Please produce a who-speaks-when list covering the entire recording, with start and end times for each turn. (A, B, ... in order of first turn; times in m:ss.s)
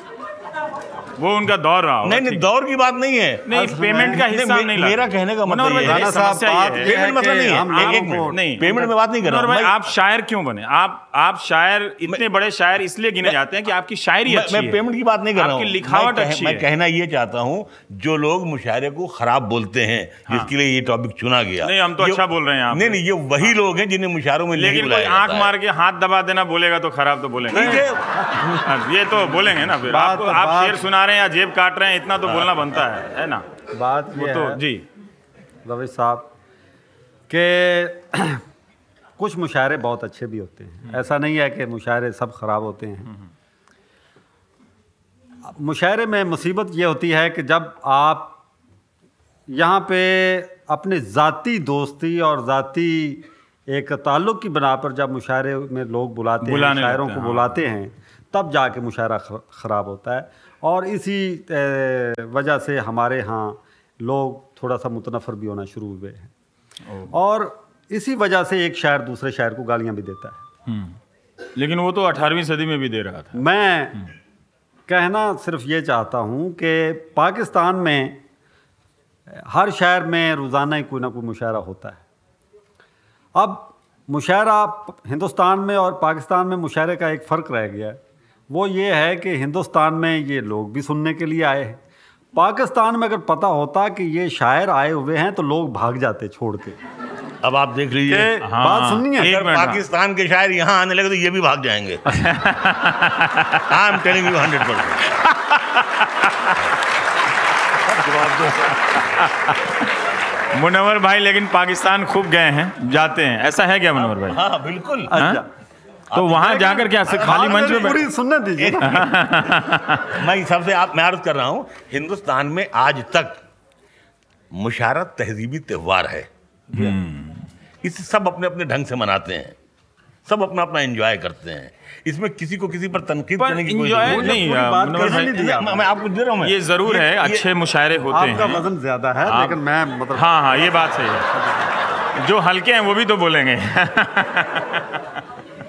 0:01.2-0:02.5 A
0:02.0-0:03.5 B
0:03.4-0:06.9 A
0:03.5-0:04.3 C
0:04.1-0:06.2 B
0:05.8-0:08.9 C
0:06.8-0:09.8 B
0:07.6-0:14.8 A
0:14.3-0:25.5 B
0:15.3-0:16.7 A
0:20.3-0:20.5 A
0:21.6-0:23.5 A
0:24.5-0:27.9 A
0:27.5-0:28.7 B
0:28.5-0:33.4 A
0:29.9-0:30.8 C
0:33.7-0:34.6 C
0:34.1-0:34.8 A
0:35.6-0:36.3 C
0:37.3-0:38.4 C
0:39.2-0:43.1 C
0:45.5-0:48.4 C
0:49.5-1:06.3 C
0:56.4-0:57.6 A
1:07.1-1:10.4 C
1:10.7-1:11.0 A
1:11.5-1:13.4 A
1:13.3-1:14.0 C
1:14.9-1:18.2 C
1:19.3-1:22.0 C
1:23.4-1:28.0 C
1:28.5-1:31.8 C
1:32.3-1:36.8 C
1:37.4-1:38.3 B
1:38.1-1:39.4 C
1:38.4-1:39.8 A
1:39.2-1:42.0 B
1:42.1-1:44.4 A
1:43.7-1:45.2 B
1:45.2-1:46.6 A
1:47.9-1:48.7 B
1:48.7-1:49.9 A
1:50.5-1:54.4 A
1:54.3-1:55.2 B
1:55.1-1:55.5 C
1:55.1-1:55.4 A
1:56.1-1:56.4 B
1:56.1-1:58.0 A
1:56.3-1:59.0 C
1:58.6-1:59.0 B
1:58.8-2:00.2 A
2:00.2-2:03.4 B
2:04.5-2:06.9 B
2:06.7-2:07.5 A
2:07.8-2:09.6 B
2:10.2-2:17.4 B
2:13.4-2:15.4 A
2:14.0-2:15.9 C
2:16.4-2:18.6 A
2:18.1-2:21.0 C
2:19.2-2:19.6 A
2:20.1-2:21.3 A
2:22.2-2:25.0 A